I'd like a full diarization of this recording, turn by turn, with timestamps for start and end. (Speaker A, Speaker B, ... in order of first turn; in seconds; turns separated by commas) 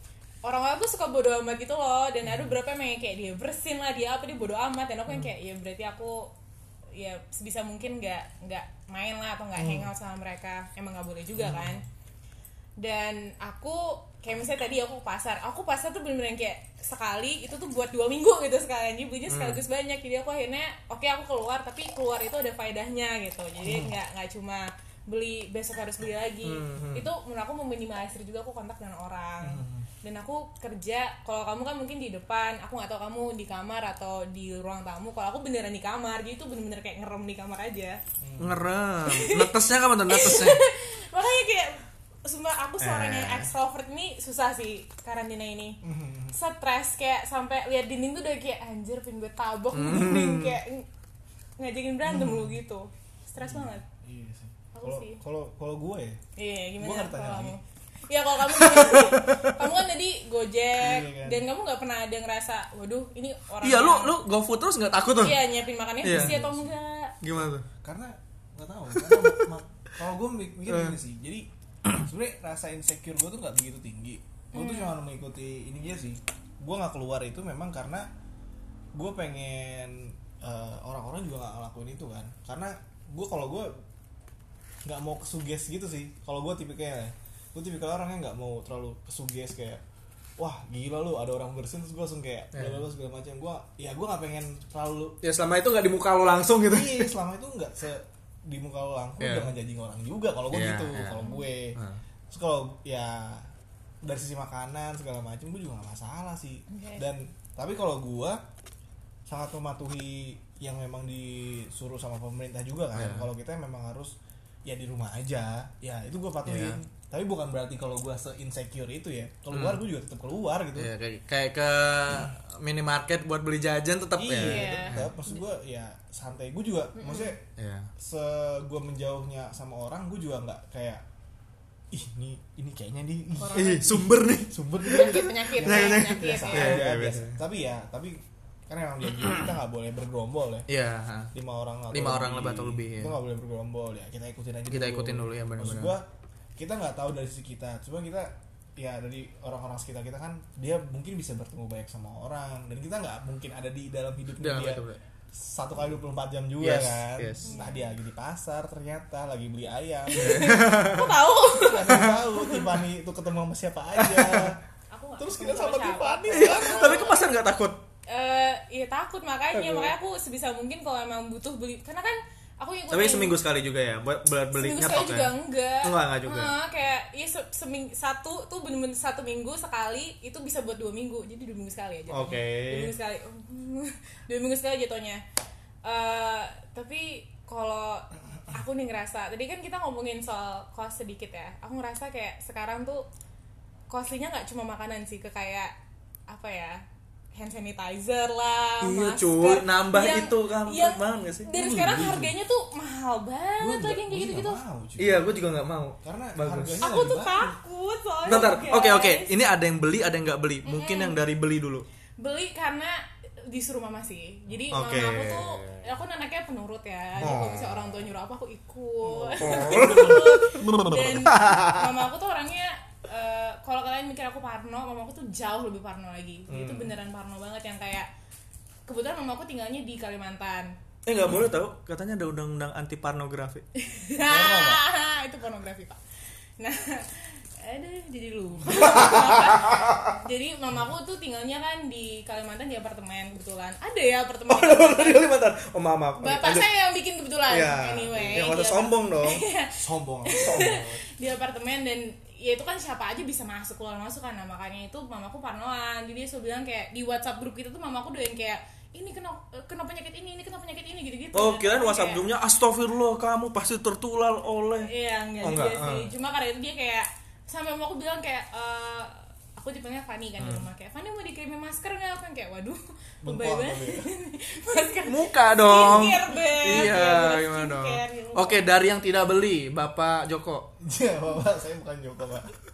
Speaker A: 0.4-6.3, Speaker A: 6.9-11.8, Speaker B: 11.4-11.8, Speaker A: 12.8-38.0, Speaker C: 19.3-19.6, Speaker C: 26.4-27.1, Speaker B: 29.4-29.8, Speaker B: 38.2-38.6, Speaker C: 38.4-40.6, Speaker A: 39.0-39.5, Speaker A: 40.1-50.9, Speaker C: 42.8-43.5, Speaker B: 45.8-46.4, Speaker C: 49.7-50.6, Speaker A: 51.6-53.8, Speaker B: 52.0-52.5, Speaker B: 53.4-56.2, Speaker A: 54.7-55.2, Speaker A: 56.4-64.2, Speaker B: 56.8-57.5, Speaker C: 58.5-59.6, Speaker B: 60.8-61.5, Speaker C: 63.6-65.5, Speaker A: 65.2-67.2, Speaker C: 66.0-66.3, Speaker B: 66.1-66.7, Speaker C: 67.2-67.7, Speaker B: 67.8-78.1, Speaker C: 68.9-69.5, Speaker C: 70.7-71.0, Speaker A: 74.5-74.9, Speaker B: 78.9-83.7, Speaker B: 84.8-89.8, Speaker B: 90.4-95.2, Speaker C: 92.5-92.8, Speaker C: 95.2-97.1, Speaker B: 96.7-101.8, Speaker C: 99.2-99.5, Speaker C: 100.5-102.0, Speaker B: 102.3-103.5, Speaker B: 104.0-108.4, Speaker A: 106.7-107.0, Speaker B: 109.3-120.9, Speaker C: 112.9-113.3, Speaker C: 116.4-116.8, Speaker C: 119.5-119.8, Speaker C: 120.8-125.1, Speaker B: 124.2-127.4, Speaker A: 124.3-125.0, Speaker A: 127.0-127.3, Speaker C: 127.6-127.9, Speaker B: 128.0-131.0, Speaker B: 131.9-140.7, Speaker A: 133.4-134.0, Speaker C: 133.5-137.4, Speaker A: 134.8-136.8, Speaker C: 139.2-139.5, Speaker C: 140.7-141.3, Speaker B: 141.3-160.8, Speaker C: 141.9-143.2, Speaker C: 144.7-145.9, Speaker C: 154.4-155.0, Speaker C: 156.6-157.6, Speaker A: 157.4-157.9, Speaker A: 160.1-162.6, Speaker C: 160.2-161.2, Speaker B: 161.5-164.6, Speaker C: 161.9-162.2, Speaker C: 164.0-164.5, Speaker A: 164.9-167.2, Speaker B: 165.2-167.1, Speaker C: 166.3-167.8, Speaker A: 168.1-173.4, Speaker C: 169.5-169.9, Speaker C: 172.9-176.5, Speaker A: 174.5-185.2, Speaker C: 182.1-182.9, Speaker A: 185.8-193.1, Speaker A: 193.9-195.7, Speaker A: 196.3-196.8, Speaker A: 197.3-204.6, Speaker C: 198.8-201.5, Speaker B: 201.5-202.3, Speaker B: 203.6-205.4, Speaker C: 205.0-206.8, Speaker B: 206.0-207.6, Speaker A: 206.8-209.3, Speaker C: 208.2-211.8, Speaker A: 210.6-211.2, Speaker A: 212.2-228.1, Speaker C: 214.7-215.8, Speaker B: 217.2-217.5, Speaker C: 217.2-217.8, Speaker B: 219.0-221.2, Speaker C: 219.4-221.9, Speaker C: 226.5-226.9, Speaker A: 228.9-230.7, Speaker C: 231.1-233.6, Speaker A: 233.8-236.0, Speaker B: 234.2-234.8, Speaker A: 236.6-245.3, Speaker C: 238.7-240.1, Speaker C: 244.5-246.7, Speaker A: 246.2-262.2, Speaker C: 247.5-249.4, Speaker B: 249.8-250.9, Speaker C: 261.3-264.9, Speaker A: 264.8-278.6, Speaker C: 265.4-266.1, Speaker C: 270.4-270.6, Speaker B: 273.2-274.1, Speaker C: 275.0-280.7, Speaker B: 280.8-282.5